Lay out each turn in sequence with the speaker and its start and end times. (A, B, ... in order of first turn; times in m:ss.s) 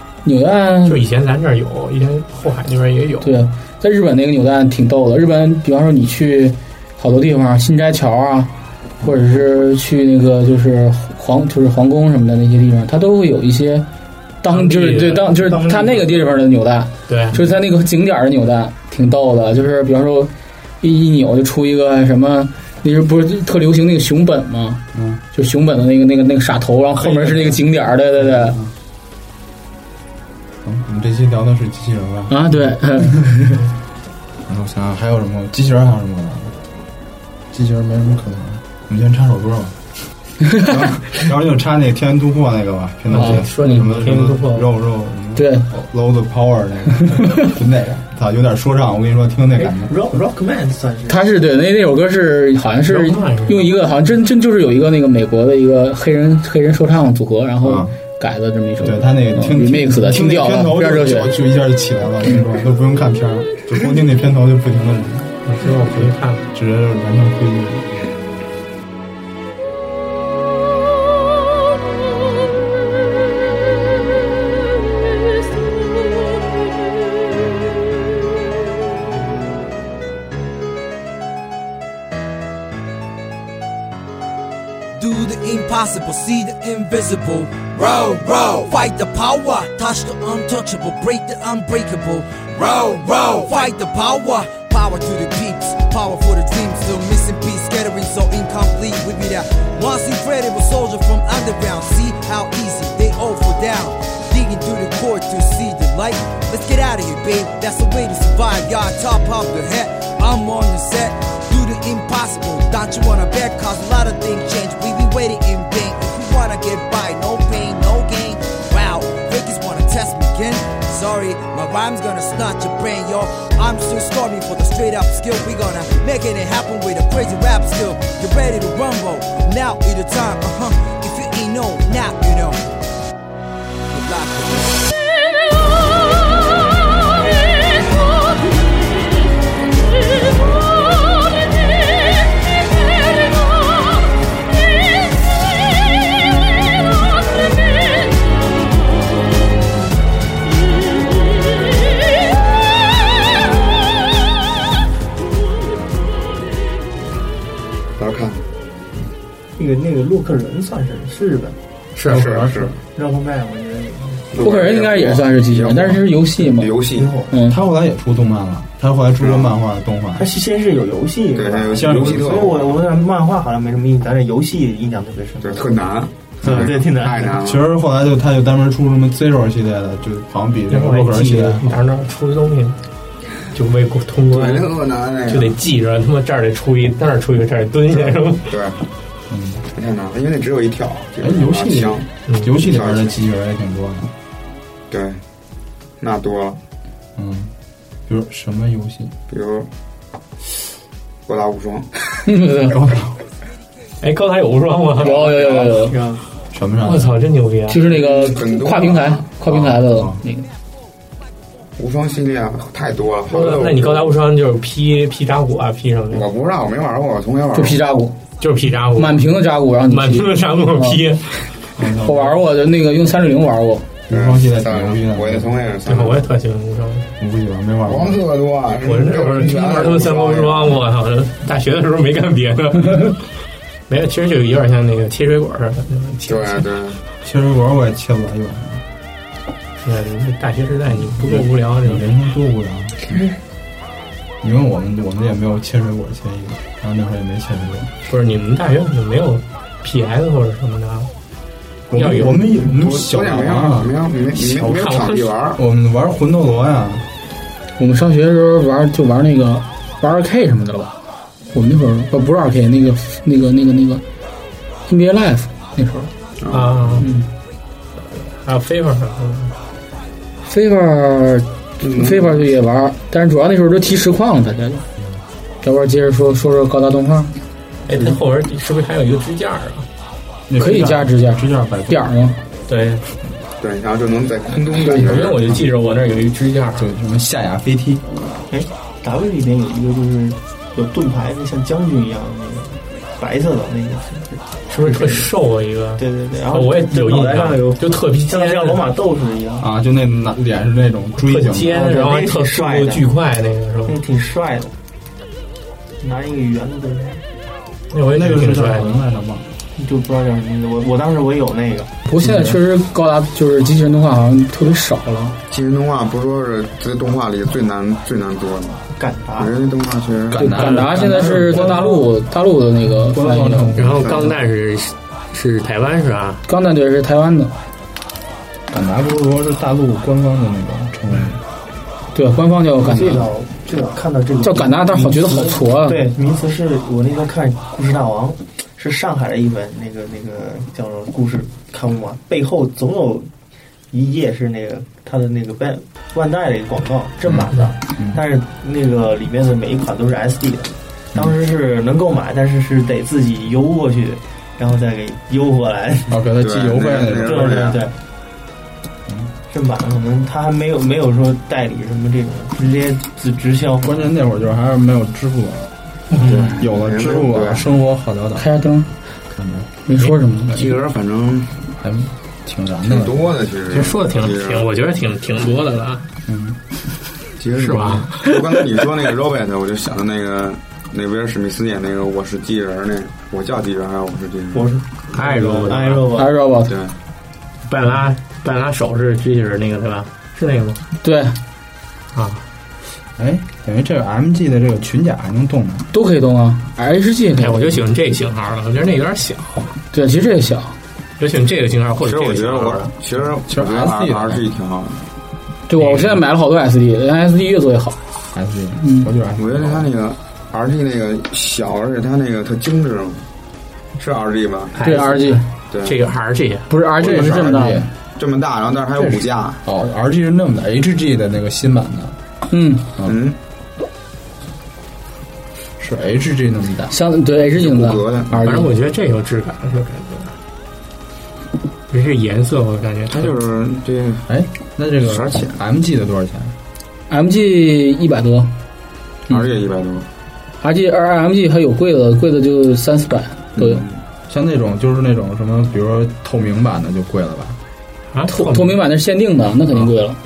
0:00.2-0:01.0 A
0:00.8-0:03.4 B
0:03.2-0:08.5 A
0:09.0-0:13.9 A
0:14.4-0:28.6 A
0:14.5-0:15.3 B
0:15.4-0:16.1 C
0:17.1-0:17.4 B
0:24.9-0:25.2 D
0:28.2-0:28.7 D
0:30.6-0:33.4 D
0:32.3-0:33.6 A
0:34.5-0:36.6 D
0:37.5-0:39.8 D
0:40.6-0:49.9 D
0:43.1-0:44.7 B
0:43.2-0:43.4 A
0:45.4-0:45.7 A
0:49.6-0:51.4 C
0:51.1-1:01.4 A
0:52.9-0:53.6 B
0:57.6-0:58.0 D
0:58.8-1:07.9 D
1:05.5-1:06.4 B
1:25.0-2:12.6 E
2:13.9-2:14.8 E
2:38.0-2:38.5 F
2:39.6-2:41.6 C
2:42.0-2:42.5 B
2:42.1-2:42.8 F
2:42.1-2:42.5 D
2:43.0-2:44.4 C
2:44.3-2:47.1 F
2:44.4-2:46.7 A
2:46.9-2:47.4 C
2:47.3-2:47.6 A
2:47.5-2:50.3 D
2:49.2-2:49.5 F
2:50.2-2:55.9 C
2:51.4-2:52.8 F
2:51.8-2:52.5 D
2:55.4-2:57.6 F
2:56.4-2:57.4 C
2:57.4-3:01.7 D
3:00.7-3:02.8 B
3:03.5-3:08.5 B
3:04.3-3:05.6 F
3:07.9-3:08.8 F
3:09.3-3:09.6 D
3:09.8-3:12.1 F
3:11.2-3:14.1 D
3:12.3-3:12.5 B
3:12.6-3:13.2 F
3:14.9-3:15.2 F
3:16.0-3:16.6 F
3:17.2-3:17.5 D
3:18.1-3:19.1 D
3:19.3-3:19.7 F
3:21.3-3:21.9 F
3:22.2-3:22.8 A
3:22.7-3:23.1 D
3:24.0-3:25.4 B
3:25.0-3:26.0 A
3:25.0-3:26.2 C
3:26.5-3:27.2 D
3:26.8-3:27.8 B
3:27.7-3:30.5 A
3:27.9-3:29.3 F
3:29.5-3:30.2 D
3:31.8-3:34.2 F
3:33.3-3:36.3 B
3:36.1-3:37.8 F
3:37.5-3:38.2 A
3:38.4-3:39.3 B
3:39.0-3:41.0 A
3:39.9-3:41.5 B
3:41.8-3:42.4 D
3:42.0-3:43.9 A
3:44.1-3:45.5 D
3:44.1-3:46.3 F
3:45.9-3:47.1 B
3:47.2-3:48.2 D
3:47.8-3:50.8 F
3:48.8-3:53.2 B
3:53.9-3:56.7 B
3:56.2-3:57.0 F
3:57.2-3:58.8 D
3:59.8-4:02.1 B
4:01.2-4:03.0 D
4:04.4-4:07.9 D
4:08.1-4:11.1 B
4:11.9-4:13.9 D
4:11.9-4:12.5 B
4:12.6-4:15.6 F
4:14.3-4:15.3 B
4:15.6-4:17.1 D
4:17.8-4:20.9 A
4:21.5-4:24.0 A
4:24.9-4:26.1 A
4:26.4-4:27.1 F
4:26.5-4:27.1 B
4:27.0-4:27.3 A
4:28.0-4:29.6 B
4:30.5-4:34.8 A
4:31.8-4:32.5 F
4:35.6-4:37.3 A
4:37.9-4:39.9 B
4:40.5-4:42.1 D
4:40.6-4:42.4 A
4:42.7-4:43.0 B
4:43.6-4:45.6 F
4:44.7-4:46.9 B
4:46.8-4:48.0 D
4:48.5-4:55.3 C
4:54.7-4:58.9 B
4:56.0-4:59.7 C
4:59.6-5:01.8 D
5:01.2-5:04.0 B
5:01.7-5:03.1 C
5:03.9-5:04.7 C
5:06.0-5:07.2 C
5:07.9-5:09.0 B
5:08.1-5:09.5 D
5:09.8-5:11.9 C
5:12.1-5:15.4 A
5:12.2-5:12.6 D
5:15.5-5:18.9 F
5:18.9-5:19.6 C
5:19.4-5:20.4 F
5:20.3-5:22.2 D
5:20.4-5:23.8 A
5:22.9-5:24.3 D
5:23.8-5:26.4 B
5:24.0-5:24.3 F
5:26.5-5:27.5 A
5:28.7-5:31.4 D
5:32.1-5:33.3 A
5:32.8-5:43.3 C
5:34.4-5:36.0 A
5:43.9-5:56.2 C
5:47.3-5:48.2 D
5:56.1-5:57.7 D
5:56.4-5:57.8 F
5:57.2-5:58.0 C
5:59.5-6:03.9 C
6:03.8-6:05.7 D
6:06.2-6:06.6 C
6:06.2-6:07.7 F
6:06.6-6:08.5 D
6:08.4-6:08.9 A
6:09.4-6:09.7 D
6:09.9-6:10.8 A
6:10.5-6:11.7 F
6:11.8-6:13.4 D
6:12.8-6:14.7 F
6:13.7-6:16.1 B
6:16.3-6:16.6 D
6:17.4-6:24.7 F
6:17.6-6:18.3 B
6:24.5-6:26.4 C
6:25.1-6:26.1 B
6:26.2-6:26.7 A
6:26.7-6:27.0 F
6:27.7-6:30.8 B
6:31.0-6:31.4 A
6:32.1-6:32.4 B
6:33.2-6:35.9 D
6:35.9-6:37.8 A
6:37.4-6:39.8 B
6:39.9-6:40.8 A
6:41.2-6:42.9 B
6:42.0-6:45.0 F
6:43.5-6:44.4 D
6:45.7-6:48.0 A
6:45.8-6:46.2 B
6:48.3-6:49.9 D
6:48.8-6:49.1 A
6:49.4-6:53.3 F
6:54.0-6:54.8 F
6:54.8-6:56.7 B
6:54.8-6:55.4 A
6:55.7-6:56.0 F
6:56.7-6:57.8 A
6:57.0-6:57.9 D
6:57.0-6:59.6 F
6:59.0-7:02.2 D
7:02.5-7:02.9 A
7:03.0-7:03.4 F
7:05.8-7:07.0 D
7:06.9-7:08.7 A
7:07.5-7:08.5 F
7:08.4-7:10.4 B
7:11.9-7:13.4 B
7:13.1-7:14.2 F
7:14.3-7:16.5 D
7:15.0-7:15.6 F
7:17.1-7:18.5 A
7:19.3-7:20.1 F
7:20.6-7:23.8 A
7:23.6-7:24.0 F
7:24.3-7:27.6 D
7:28.1-7:28.8 B
7:28.3-7:30.2 A